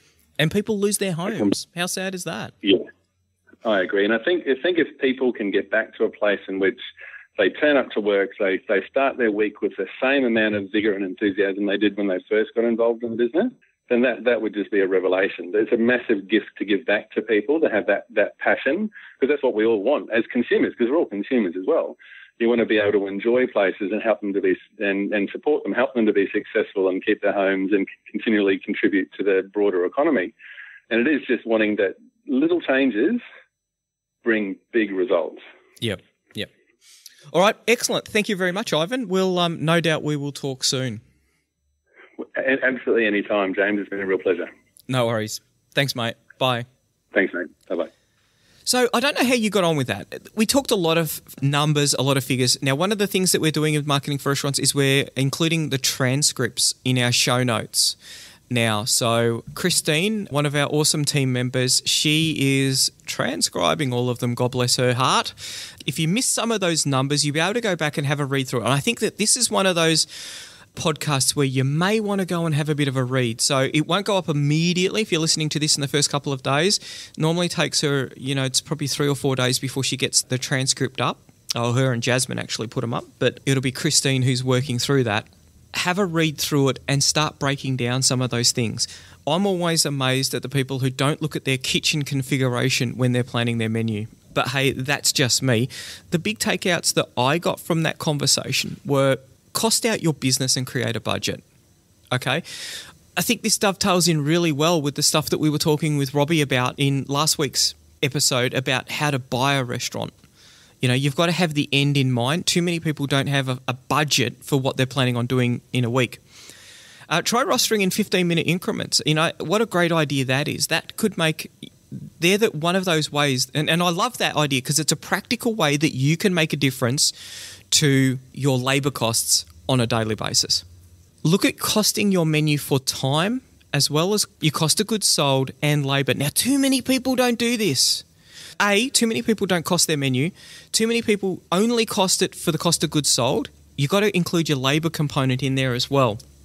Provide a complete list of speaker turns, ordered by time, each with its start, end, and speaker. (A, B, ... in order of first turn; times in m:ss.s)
0:00.4-0:02.5 A
0:03.6-0:06.8 B
0:07.4-0:30.3 B
0:30.9-0:33.2 B
0:34.2-0:35.4 B
0:35.8-0:36.5 A
0:37.3-0:41.0 A
0:42.2-0:44.5 B
0:44.9-0:46.6 A
0:47.1-0:47.9 B
0:48.6-0:58.0 A
0:58.5-1:41.4 A
1:42.1-1:50.1 A
1:50.8-1:56.2 A
1:57.1-2:07.1 A
2:07.7-2:10.6 A
2:11.2-2:18.0 A
2:18.6-2:26.2 A